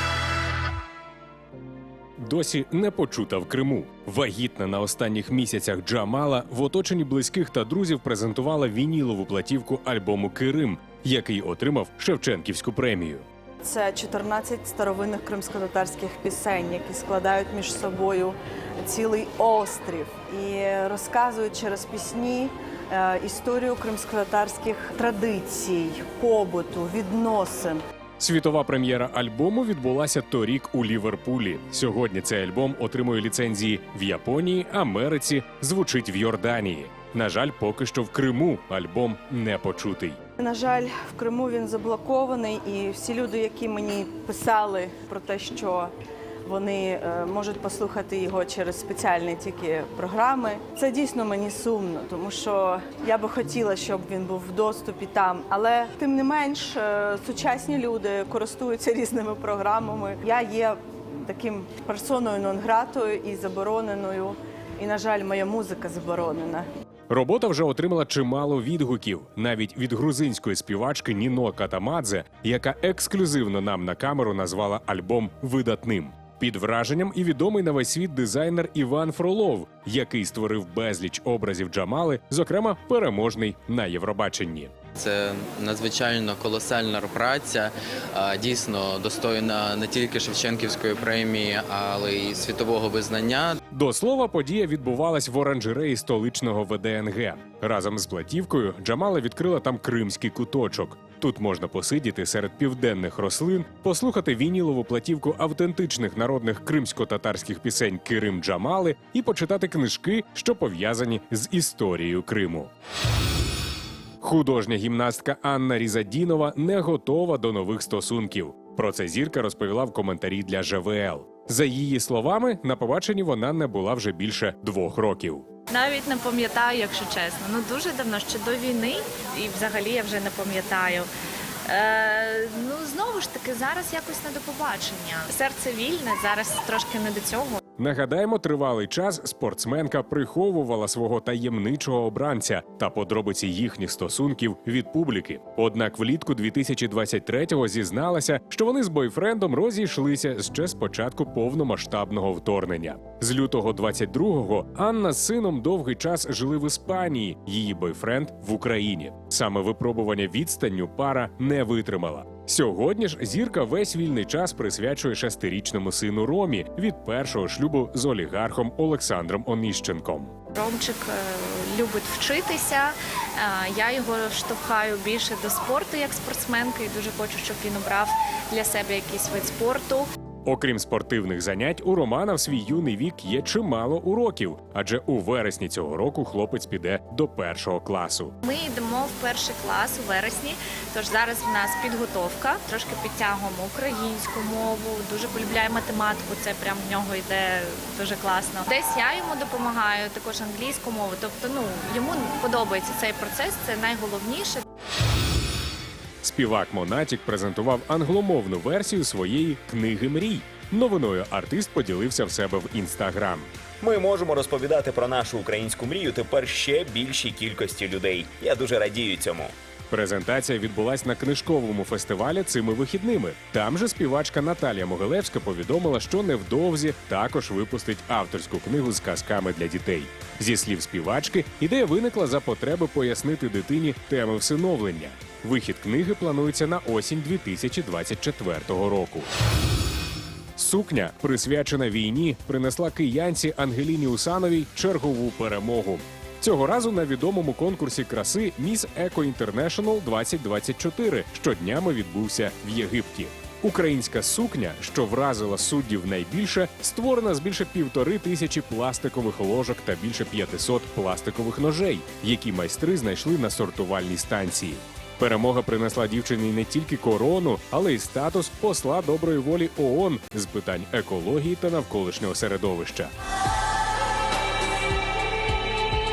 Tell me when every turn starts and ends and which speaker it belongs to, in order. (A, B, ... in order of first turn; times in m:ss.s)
0:02.2-0:13.2 A
0:13.6-0:27.8 B
0:28.2-0:40.2 A
0:40.4-0:45.9 B
0:46.4-1:06.7 B
1:07.1-1:24.7 A
1:25.0-1:33.6 C
1:33.7-1:52.7 A
1:54.2-2:05.5 A
2:05.7-2:11.1 D
2:11.7-2:17.6 D
2:17.8-2:50.3 A
2:50.5-3:00.1 D
3:00.4-3:08.4 A
3:08.4-3:24.6 D
3:26.2-3:33.5 A
3:33.8-3:39.5 E
3:39.9-3:59.3 A
4:00.6-4:33.1 A